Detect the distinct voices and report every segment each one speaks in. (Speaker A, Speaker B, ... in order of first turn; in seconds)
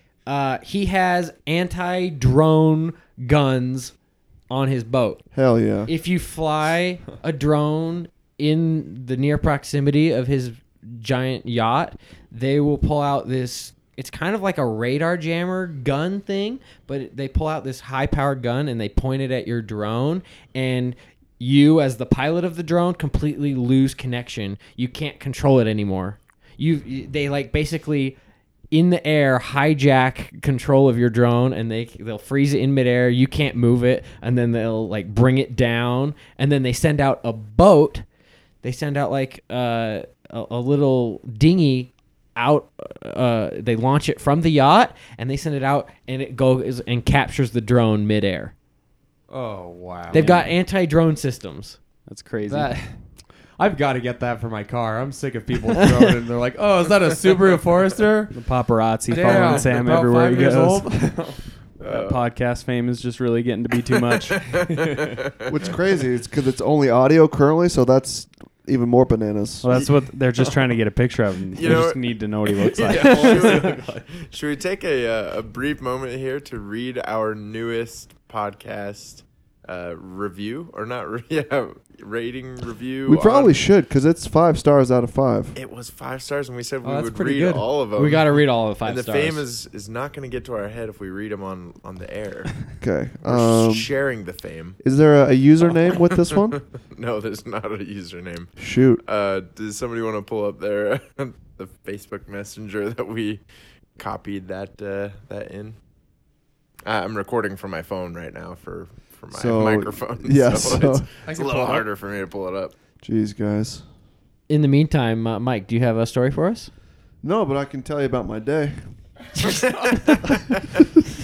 Speaker A: 0.3-3.9, 4.5-5.3, 5.9-28.2, 28.7-38.0, 38.6-48.5, 50.1-51.8, 87.9-89.5, 114.5-116.7
Speaker B: 5.3-5.9, 65.5-69.8, 83.1-85.5, 92.8-93.9, 94.8-96.6, 98.6-99.0, 109.3-111.1, 113.0-113.8, 117.2-118.8
Speaker C: 49.3-50.3, 52.5-53.0, 53.6-58.4, 59.1-61.5, 64.7-65.2, 72.8-74.0, 86.8-87.7, 111.2-111.9
Speaker D: 50.1-50.5, 52.1-52.9, 58.3-61.0, 61.9-64.5, 69.6-73.8
Speaker E: 61.8-62.2, 64.0-65.7, 71.5-83.6, 85.5-92.6, 93.2-94.8, 95.8-103.4, 104.0-105.8, 106.8-112.7, 119.4-120.8